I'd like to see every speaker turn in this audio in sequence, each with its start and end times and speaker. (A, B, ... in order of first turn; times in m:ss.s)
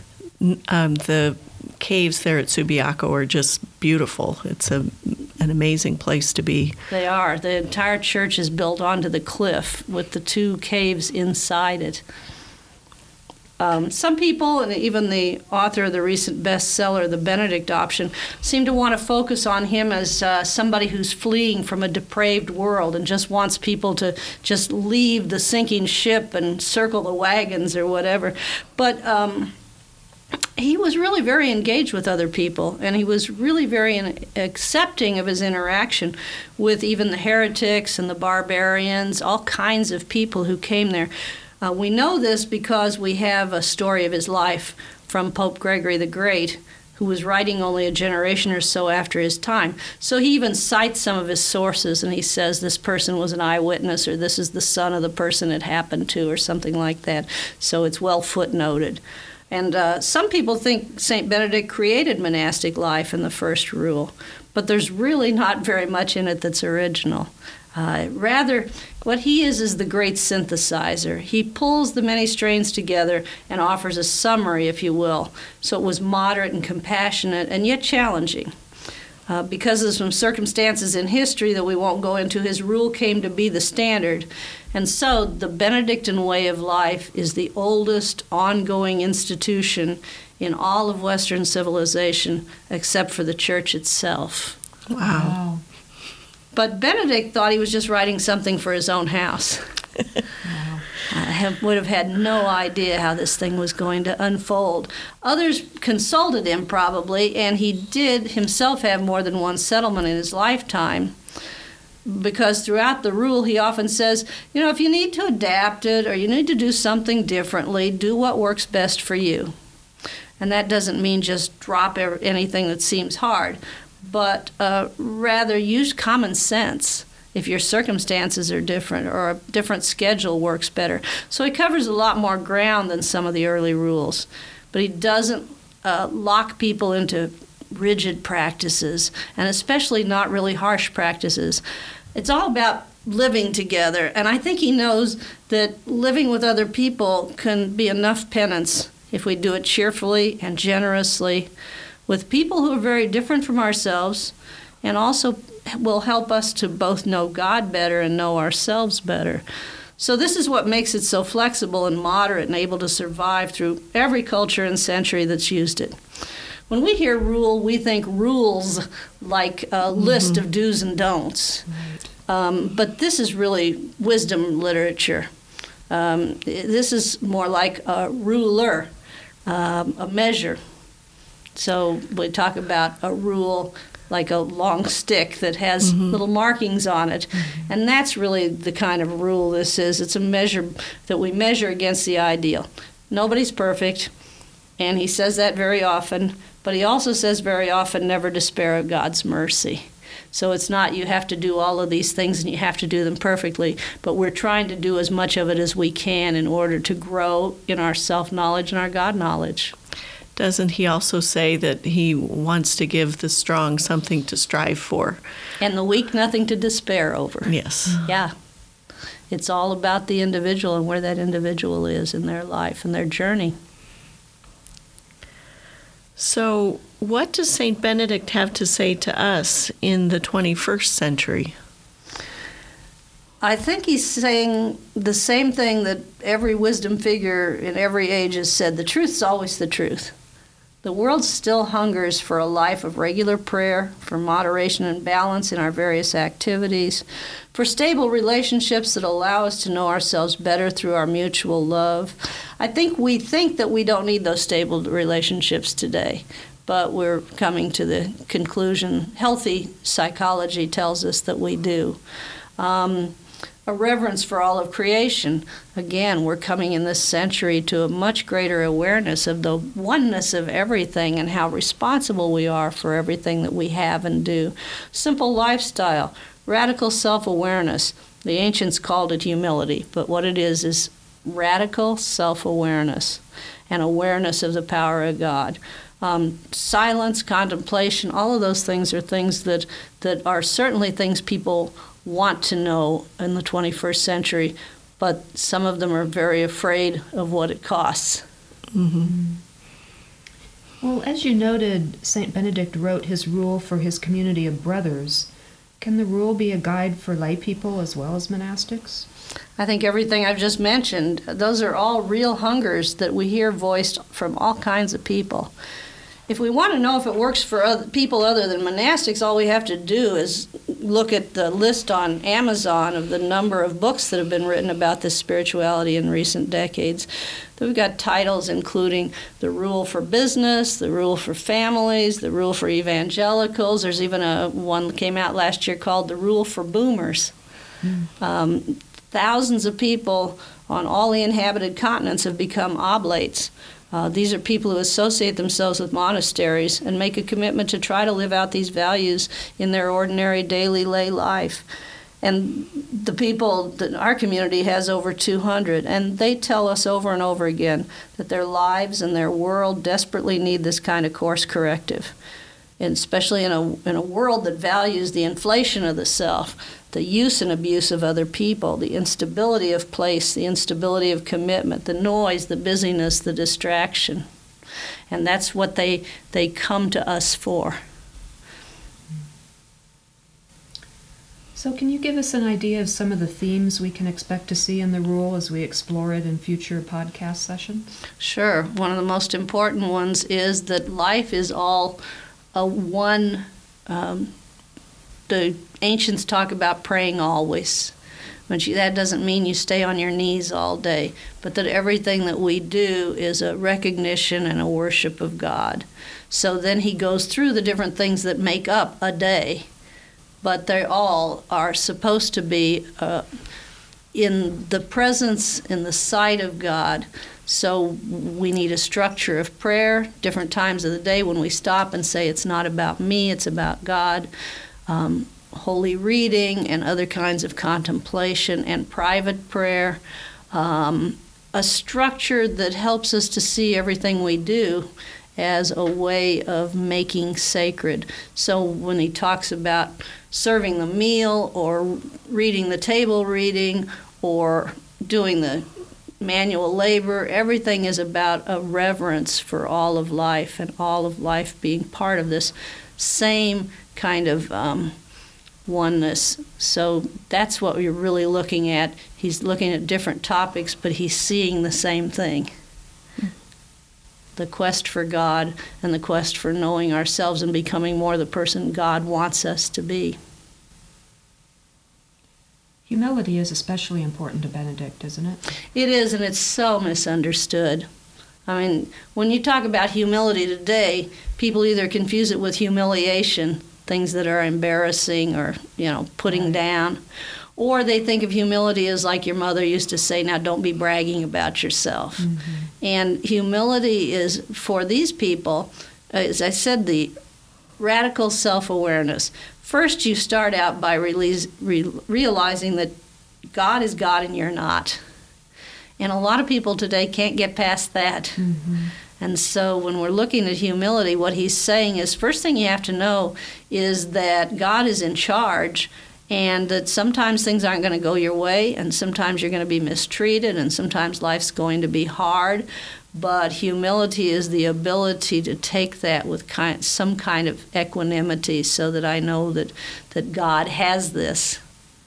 0:00.4-0:06.8 A
0:06.9-0:12.0 B
0:13.6-0:29.5 B
0:30.6-0:41.1 B
0:41.6-1:18.5 B
1:19.3-1:34.6 B
1:34.9-1:35.4 A
1:35.0-1:35.6 C
1:36.5-1:39.6 B
1:40.4-1:40.8 C
1:41.1-1:51.1 B
1:52.0-1:59.5 B
2:00.4-2:21.6 B
2:22.1-2:31.5 B
2:32.1-2:39.4 B
2:40.0-2:46.0 B
2:46.7-2:51.7 B
2:51.7-2:52.1 C
2:52.2-2:55.3 B
2:55.9-2:58.9 B
2:59.4-3:00.6 B
3:01.5-3:14.1 B
3:14.8-3:29.7 B
3:30.4-3:35.2 A
3:35.6-3:38.3 B
3:37.4-3:38.1 A
3:39.3-3:43.5 B
3:46.2-3:51.5 A
3:53.4-4:00.1 B
4:00.8-4:22.0 B
4:22.6-4:58.2 B
4:58.7-4:59.1 A
4:59.0-4:59.4 C
5:00.8-5:09.0 C
5:09.6-5:15.5 B
5:16.3-5:37.3 B
5:38.2-5:51.6 B
5:52.2-6:02.1 B
6:02.8-6:14.2 B
6:15.1-6:17.8 B
6:21.6-6:27.9 C
6:28.2-6:32.0 B
6:32.5-6:34.3 B
6:35.3-6:37.9 B
6:38.5-6:49.7 B
6:50.4-6:53.2 B
6:54.1-7:04.3 B
7:04.9-7:10.0 B
7:10.5-7:25.6 B
7:26.2-7:34.9 B
7:35.6-7:42.5 B
7:44.4-7:50.2 B
7:52.9-7:55.4 C
7:55.7-7:57.8 B
7:58.5-8:07.0 B
8:07.6-8:12.3 B
8:12.2-8:12.6 C
8:12.8-8:17.1 B
8:17.8-8:22.9 B
8:23.5-8:25.0 B
8:26.0-8:28.4 B
8:28.4-8:28.9 C
8:29.2-8:51.6 B